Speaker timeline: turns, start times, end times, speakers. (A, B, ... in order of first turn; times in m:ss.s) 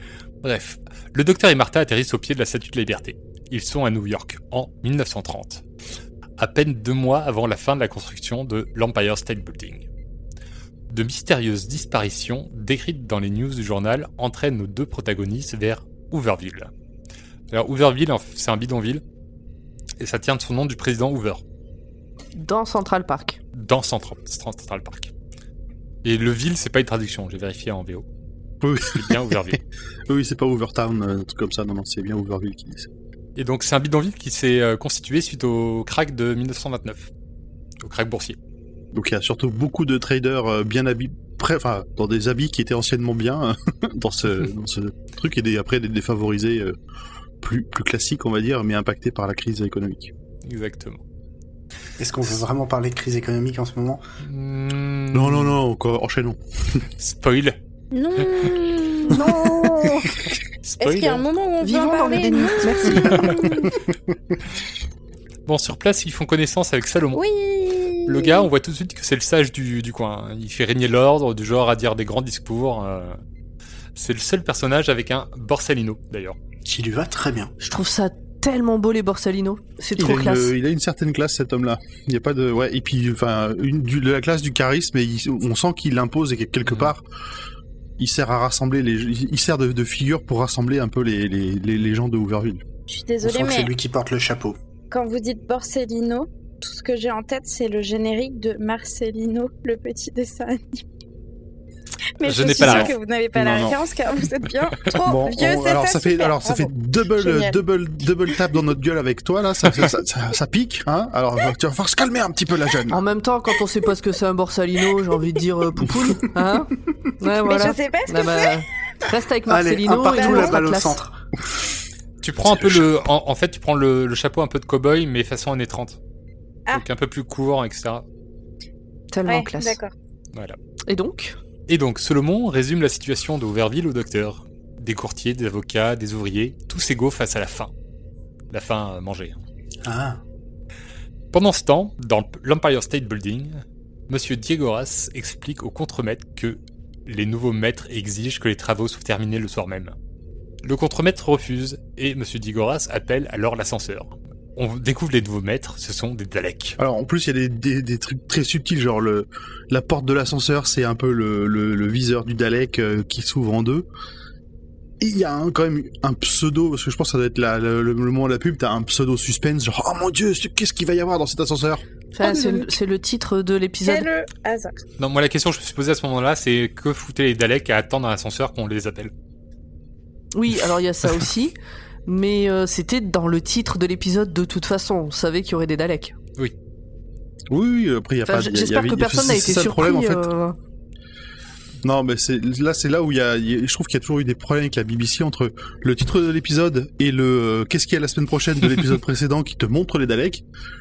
0:00.4-0:05.6 A
0:06.4-0:09.9 A
0:10.9-0:16.7 A
0:17.5-0:19.0 A
0:20.0-0:21.4 A
0:22.4-0:23.4 B
0:23.5-0:25.1 A
0:26.0-0:28.0 A
0:28.6-0:29.6 C
0:28.8-0:29.6 A
0:30.1-0:32.9 C
0:33.4-0:37.1 A
0:37.8-0:38.4 A
0:38.9-0:46.8 C
0:47.4-0:50.1 C
0:50.4-0:51.0 A
0:52.0-0:54.0 D
0:54.2-0:55.6 A
0:55.1-0:56.8 C
0:57.0-0:57.6 A
0:57.9-1:00.0 E
0:59.1-1:00.1 B
1:00.6-1:01.2 A
1:00.8-1:03.7 E
1:01.6-1:03.7 B
1:05.4-1:07.2 A
1:07.1-1:08.5 E
1:08.1-1:13.2 A
1:14.0-1:16.4 A
1:16.6-1:17.5 D
1:17.6-1:20.5 B
1:20.0-1:27.0 C
1:26.6-1:26.9 A
1:28.0-1:32.6 C
1:32.9-1:33.7 E
1:33.2-1:34.6 D
1:34.9-1:40.8 E
1:42.2-1:47.6 E
1:42.2-1:42.9 A
1:42.6-1:43.8 C
1:45.0-1:53.0 C
1:52.9-2:01.0 B
1:57.3-1:58.6 E
1:59.5-2:01.2 D
2:00.1-2:00.6 E
2:02.2-2:06.0 A
2:02.5-2:02.8 C
2:06.7-2:08.0 A
2:09.1-2:09.8 B
2:09.2-2:09.9 E
2:10.9-2:11.4 B
2:11.7-2:17.7 A
2:18.5-2:19.4 A
2:19.8-2:20.2 D
2:21.3-2:29.9 A
2:30.6-2:36.8 A
2:36.8-2:43.8 C
2:45.0-2:51.8 C
2:52.1-2:54.1 B
2:52.2-2:52.7 E
2:53.8-2:54.8 E
2:55.0-2:59.1 A
3:00.3-3:01.5 B
3:02.0-3:06.1 B
3:07.5-3:10.2 C
3:08.2-3:10.6 B
3:11.8-3:20.4 C